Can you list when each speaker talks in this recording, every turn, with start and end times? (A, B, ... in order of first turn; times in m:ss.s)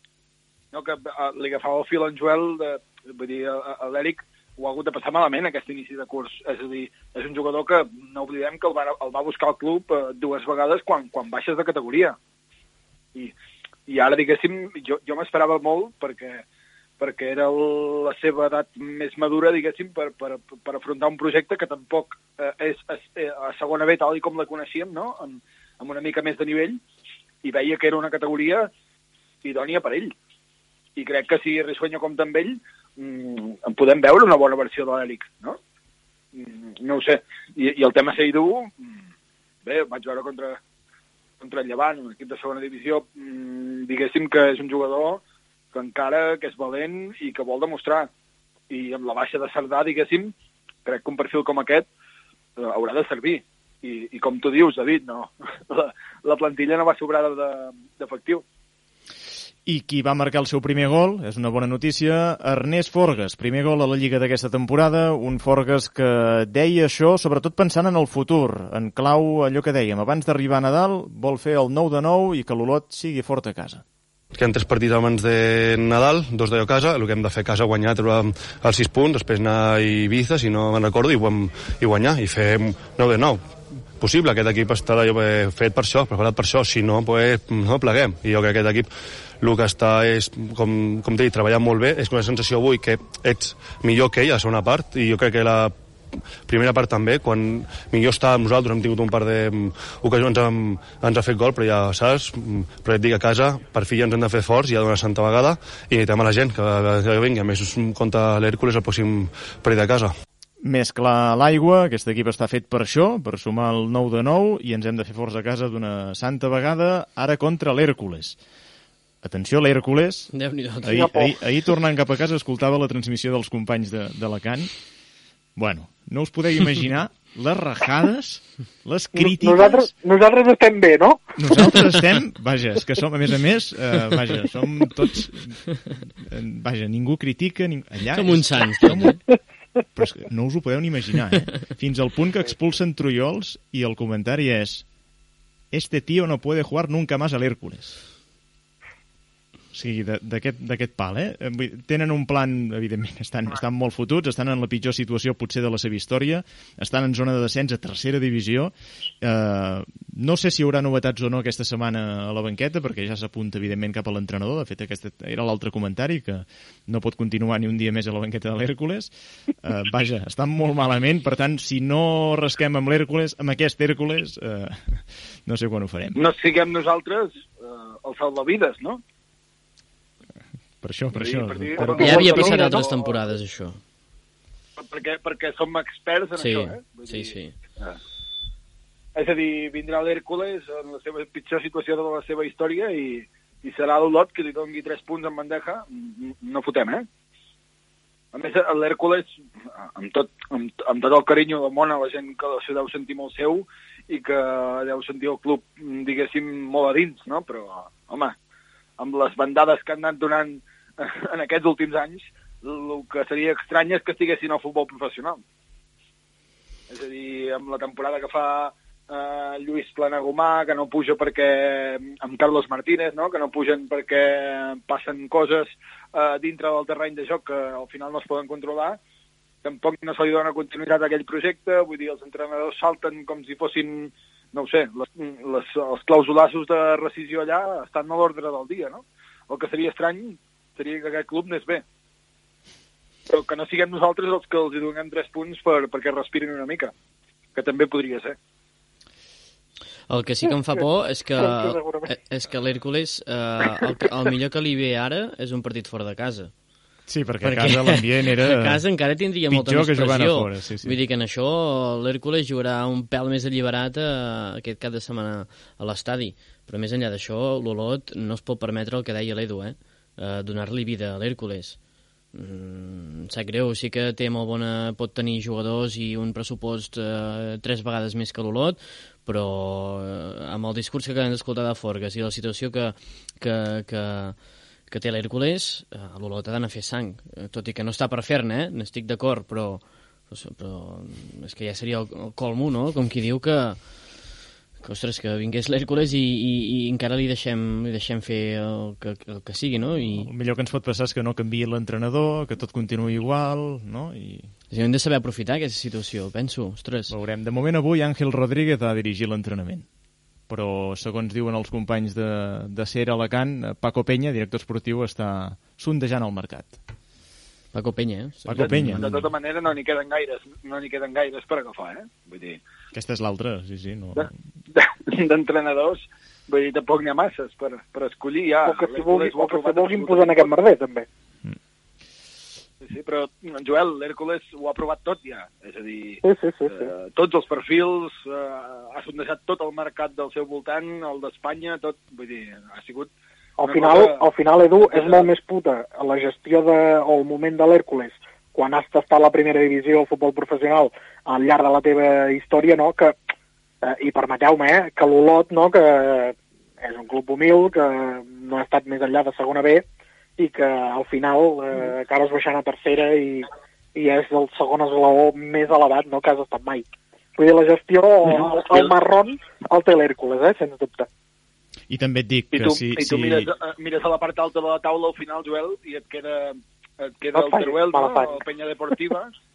0:00.7-0:12.2 A
0:13.9-0:16.4 A
0:17.0-0:26.8 A
0:27.4-0:28.7 A
0:29.4-0:30.1 A
0:31.0-0:35.6 A
0:36.3-0:39.0 A
0:39.6-0:40.6 A
0:41.4-0:45.2 A
0:45.7-0:48.1 A
0:48.7-0:50.3 A
0:50.8-0:51.9 A
0:52.6-0:58.4 A
0:59.6-1:13.8 B
1:14.3-1:23.4 C
1:24.0-1:28.9 C
1:29.4-1:35.7 C
1:36.4-1:50.1 C
1:50.6-1:58.4 B
1:59.2-2:04.7 B
2:00.3-2:01.1 D
2:00.9-2:01.3 E
2:05.6-2:09.9 B
2:09.1-2:11.2 E
2:11.4-2:15.6 B
2:16.2-2:19.2 B
2:18.1-2:19.2 D
2:20.0-2:24.8 B
2:25.7-2:28.0 B
2:29.7-2:56.2 B
2:56.2-2:59.0 A
3:00.8-3:02.8 B
3:01.1-3:03.2 A
3:01.8-3:03.8 D
3:04.8-3:08.0 A
3:06.4-3:07.5 D
3:09.2-3:17.1 A
3:18.3-3:19.3 A
3:19.8-3:28.3 A
3:29.0-3:35.4 A
3:36.9-3:49.0 A
3:49.6-4:01.8 A
4:03.3-4:06.9 A
4:07.5-4:08.4 A
4:10.1-4:16.5 D
4:10.5-4:10.8 E
4:11.4-4:12.1 E
4:17.1-4:18.8 B
4:17.4-4:31.8 D
4:19.5-4:21.0 B
4:32.3-4:54.2 D
4:54.8-5:00.3 D
5:00.1-5:04.5 B
5:04.7-5:07.1 D
5:07.1-5:09.8 B
5:10.5-5:16.8 B
5:17.7-5:19.2 D
5:18.4-5:19.1 B
5:18.6-5:22.6 A
5:22.9-5:24.3 B
5:24.2-5:30.5 A
5:28.7-5:31.1 E
5:32.8-5:44.2 A
5:36.2-5:36.9 E
5:43.6-5:53.1 E
5:44.8-5:45.3 A
5:53.8-5:59.8 E
6:00.4-6:06.8 E
6:07.4-6:11.1 E
6:08.4-6:08.8 A
6:11.9-6:13.5 B
6:12.5-6:19.3 A
6:17.3-6:18.3 E